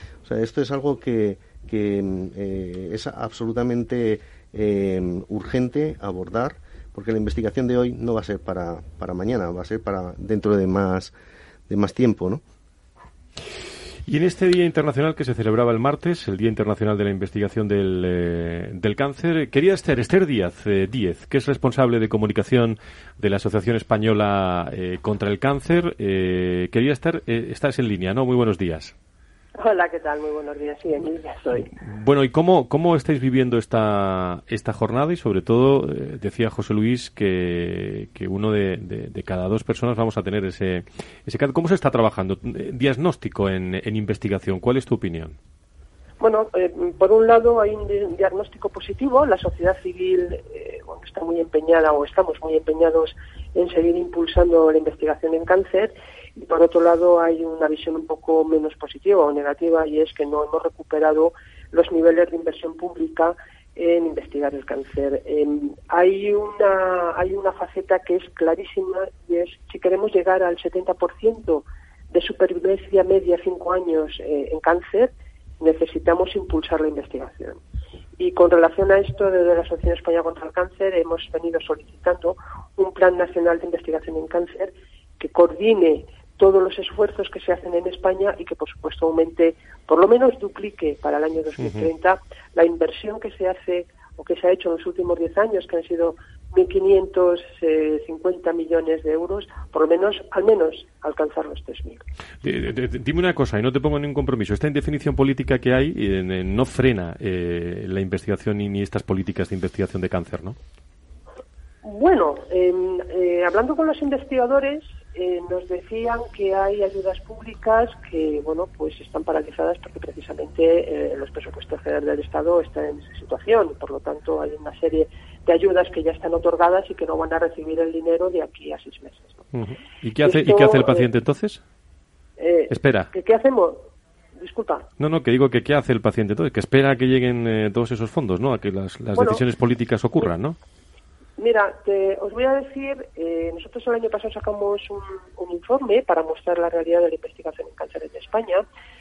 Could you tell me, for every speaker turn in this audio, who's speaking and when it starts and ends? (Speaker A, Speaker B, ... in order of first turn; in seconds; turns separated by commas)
Speaker A: 0.2-11.1, Speaker A: 11.7-12.4, Speaker B: 14.1-28.9, Speaker C: 29.6-31.7, Speaker B: 31.8-45.4, Speaker C: 46.2-77.6, Speaker C: 78.2-102.0, Speaker B: 91.6-91.9, Speaker B: 102.4-110.6, Speaker C: 111.8-129.4, Speaker B: 129.5-131.6, Speaker C: 130.2-131.1, Speaker C: 132.4-133.8, Speaker B: 132.7-133.1, Speaker C: 134.4-134.9, Speaker B: 135.0-140.6, Speaker C: 139.1-139.4, Speaker C: 141.4-148.6